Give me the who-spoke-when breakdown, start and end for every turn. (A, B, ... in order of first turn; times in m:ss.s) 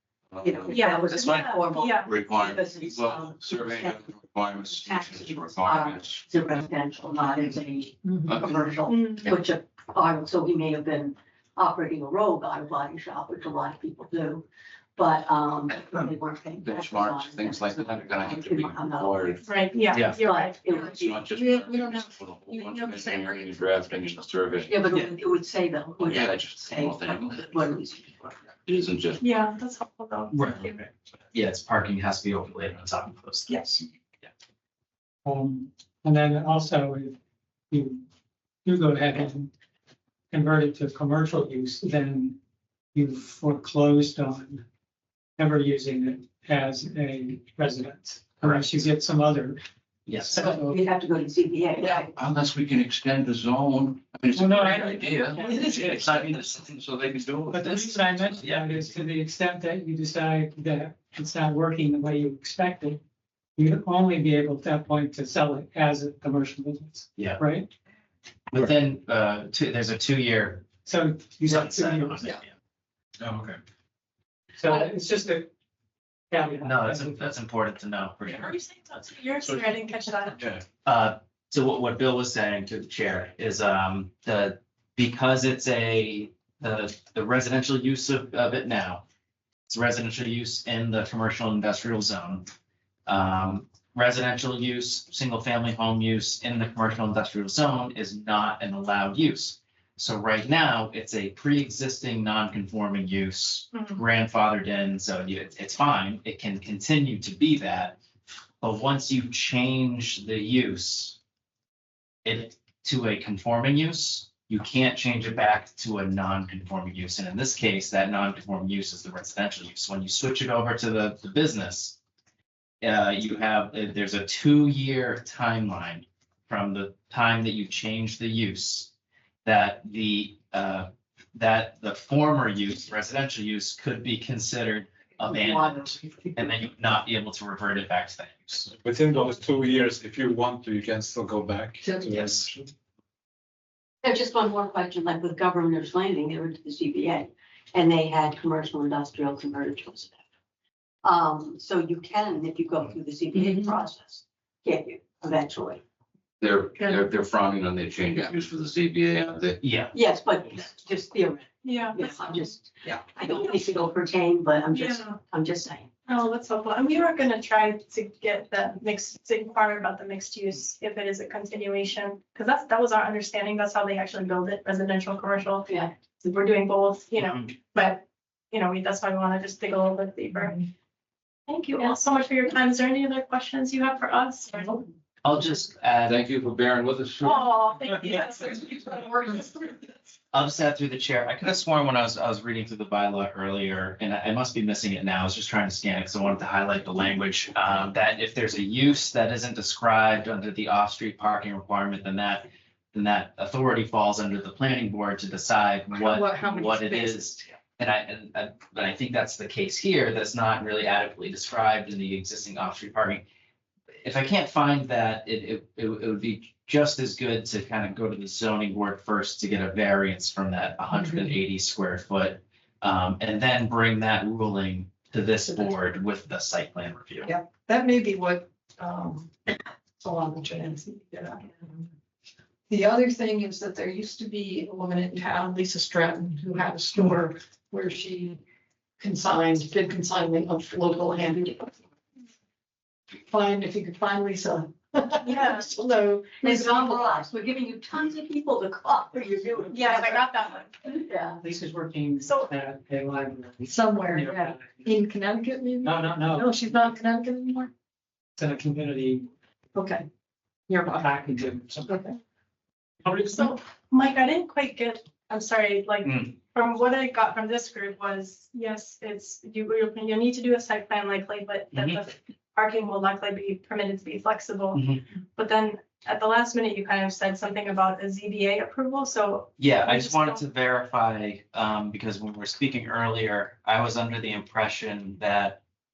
0:00.3-0:06.3 A
0:00.4-0:14.4 B
0:00.7-0:02.1 C
0:08.2-0:08.8 A
0:08.9-0:09.4 C
0:15.0-0:19.4 B
0:16.6-0:19.5 A
0:19.4-0:20.7 C
0:19.9-0:20.2 D
0:20.0-0:21.4 B
0:20.7-0:24.9 A
0:21.4-0:23.4 E
0:24.7-0:28.4 B
0:26.0-0:27.6 A
0:28.6-0:29.2 A
0:29.2-0:30.8 C
0:30.3-0:30.7 D
0:31.3-0:33.8 D
0:33.5-0:33.8 C
0:35.2-0:37.2 F
0:37.7-0:38.0 F
0:38.6-0:39.5 F
0:40.3-0:42.4 F
0:42.9-0:44.6 F
0:45.4-0:50.8 F
0:48.4-0:48.7 D
0:50.0-0:50.4 D
0:50.4-0:52.1 B
0:51.8-0:58.6 A
0:54.3-0:56.3 F
0:55.1-0:55.7 B
0:57.5-1:03.0 F
0:58.4-0:58.7 D
1:03.6-1:07.7 F
1:08.5-1:10.8 D
1:10.8-1:12.4 F
1:11.4-1:12.4 D
1:13.2-1:13.6 G
1:14.6-1:15.5 F
1:16.3-1:17.3 F
1:16.6-1:18.5 D
1:18.3-1:20.4 C
1:19.4-1:19.8 G
1:20.4-1:20.6 G
1:20.8-1:29.0 D
1:29.7-1:32.5 D
1:33.1-1:48.0 D
1:43.7-1:44.0 C
1:48.6-1:51.2 D
1:52.2-2:02.0 D
2:02.8-2:08.9 D
2:09.4-2:18.7 D
2:15.2-2:16.5 E
2:15.4-2:15.8 B
2:18.8-2:22.6 G
2:21.8-2:22.7 E
2:24.0-2:30.2 B
2:31.0-2:35.8 B
2:33.3-2:33.7 E
2:36.4-2:39.6 A
2:39.6-2:39.9 D
2:39.9-2:45.9 B
2:41.6-2:42.5 C
2:43.2-2:43.6 C
2:44.7-2:45.2 C
2:46.1-3:00.7 C
2:57.2-2:57.4 D
3:01.5-3:04.8 C
3:05.2-3:06.2 D
3:06.1-3:07.5 A
3:07.2-3:08.8 C
3:08.0-3:09.8 E
3:10.3-3:33.2 D
3:26.0-3:27.4 E
3:34.0-3:47.3 D
3:40.9-3:41.3 E
3:47.2-3:51.9 E
3:52.7-3:58.4 E
3:59.0-4:01.7 E
4:03.3-4:07.1 E
4:05.2-4:05.7 C
4:06.4-4:10.2 B
4:09.7-4:10.7 C
4:10.9-4:11.4 B
4:11.4-4:14.9 F
4:12.2-4:12.5 C
4:13.6-4:17.7 E
4:15.8-4:16.5 F
4:18.4-4:19.3 F
4:19.7-4:20.1 E
4:20.7-4:21.1 E
4:20.9-4:22.0 F
4:21.9-4:22.1 E
4:23.0-4:23.5 F
4:23.3-4:34.8 C
4:26.0-4:26.3 D
4:31.7-4:32.0 D
4:34.7-4:35.0 D
4:35.4-4:40.4 C
4:39.6-4:45.6 D